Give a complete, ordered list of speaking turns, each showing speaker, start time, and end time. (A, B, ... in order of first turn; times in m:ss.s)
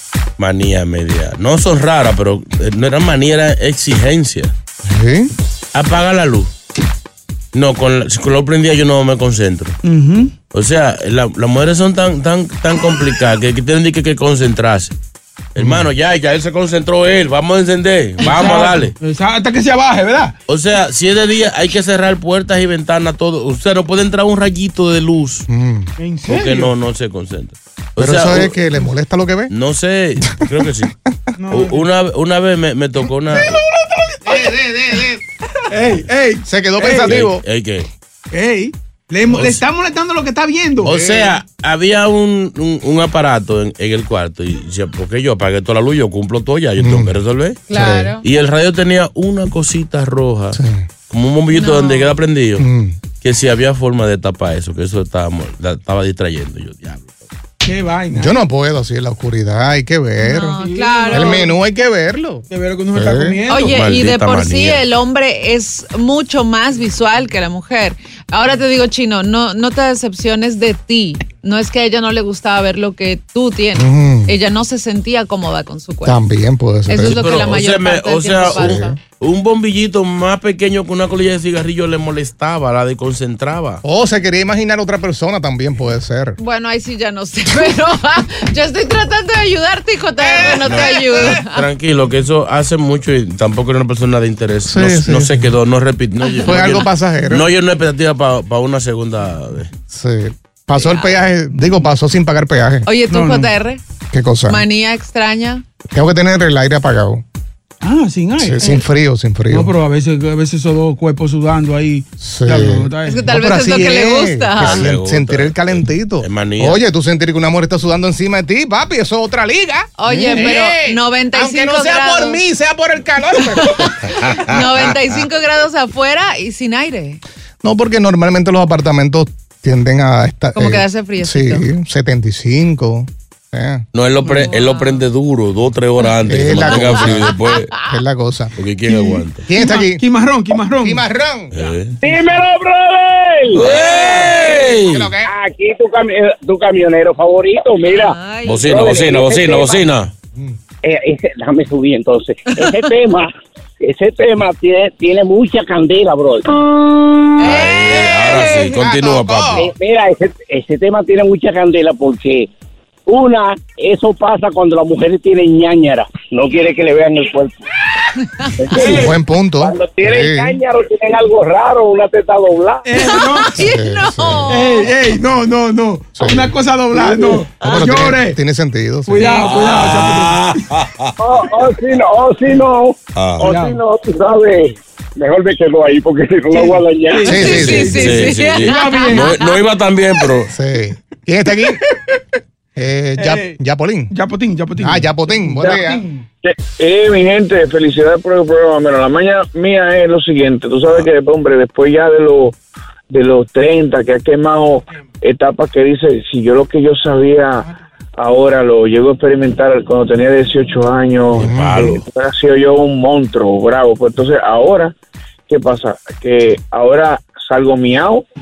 0:00.4-0:04.5 A
0:04.8-0:05.3 B
0:05.7-0:06.5 A
0:07.5-0:09.8 A
0:09.8-0:10.3 C
0:10.5-0:14.9 A
0:15.5-0:18.9 A
0:15.6-0:15.9 B
0:18.4-0:20.3 C
0:20.5-0:25.5 A
0:25.5-0:25.9 B
0:26.0-0:26.7 C
0:26.3-0:28.6 A
0:28.0-0:29.5 B
0:29.5-0:30.9 A
0:31.4-0:31.9 C
0:31.5-0:33.6 A
0:33.3-0:34.6 C
0:34.2-0:35.2 B
0:35.7-0:37.2 C
0:36.4-0:37.4 B
0:37.0-0:37.9 A
0:38.3-0:40.9 C
0:39.3-0:39.6 A
0:40.8-0:47.6 A
0:40.8-0:41.4 B
0:46.8-0:47.1 B
0:47.7-0:48.2 D
0:47.7-0:48.2 B
0:48.2-0:52.6 A
0:50.5-0:50.8 B
0:51.5-0:52.2 D
0:52.6-0:53.0 B
0:53.2-0:57.2 A
0:57.6-0:58.4 C
0:58.1-1:00.6 B
1:00.3-1:01.4 D
1:00.3-1:01.4 C
1:01.1-1:03.4 B
1:02.5-1:03.7 C
1:03.5-1:16.2 D
1:03.6-1:04.8 A
1:13.7-1:14.4 B
1:16.0-1:17.2 B
1:16.9-1:18.9 D
1:17.0-1:23.8 A
1:18.5-1:19.0 B
1:23.8-1:26.4 B
1:26.4-1:31.7 D
1:30.4-1:39.7 A
1:34.6-1:35.5 B
1:36.2-1:36.8 D
1:36.4-1:37.5 B
1:39.9-1:42.9 B
1:40.7-1:41.2 D
1:42.8-1:43.8 D
1:43.1-1:43.5 C
1:44.1-1:44.6 B
1:44.5-1:45.6 D
1:45.9-1:47.2 B
1:47.8-1:48.8 C
1:48.4-1:49.7 B
1:49.5-1:53.3 C
1:52.2-2:03.9 B
1:53.0-1:54.8 D
1:54.6-1:56.8 A
2:00.0-2:02.4 D
2:03.3-2:07.2 D
2:07.6-2:13.8 B
2:10.5-2:11.6 D
2:13.9-2:17.7 A
2:14.4-2:15.0 D
2:16.3-2:17.3 B
2:16.7-2:17.8 D
2:17.8-2:18.5 B
2:18.6-2:19.4 A
2:18.9-2:19.2 C
2:19.5-2:20.0 B
2:19.8-2:21.0 C
2:20.8-2:21.5 B
2:21.5-2:22.0 A
2:22.0-2:23.7 E
2:23.5-2:25.1 A
2:24.8-2:25.3 B
2:25.3-2:29.8 E
2:27.9-2:29.1 D
2:28.4-2:30.1 A
2:30.8-2:36.5 E
2:32.5-2:32.9 D
2:37.4-2:38.8 D
2:37.4-2:39.7 A
2:38.7-2:39.7 B
2:39.6-2:42.5 E
2:43.1-2:47.5 E
2:48.4-2:48.7 D
2:48.6-2:49.1 E
2:48.7-2:49.1 C
2:48.8-2:50.6 B
2:49.6-2:52.8 E
2:52.8-2:53.6 C
2:52.9-2:54.9 D
2:53.5-2:54.6 B
2:54.5-2:58.4 C
2:56.2-2:57.0 B
2:57.6-2:57.9 D
2:57.6-2:59.3 B
2:59.1-3:00.6 C
2:59.2-2:59.5 D
2:59.4-3:01.1 A
3:01.2-3:07.3 E
3:03.2-3:03.5 A
3:03.4-3:03.8 C
3:06.5-3:09.4 C
3:07.2-3:07.9 B
3:07.3-3:09.5 D
3:07.5-3:10.5 A
3:10.5-3:11.8 B
3:12.8-3:14.1 B
3:13.2-3:13.6 C
3:14.1-3:16.2 C
3:14.8-3:16.0 B
3:16.4-3:22.6 F
3:23.1-3:34.9 F
3:31.3-3:32.0 A
3:31.3-3:31.9 B
3:35.5-3:38.2 F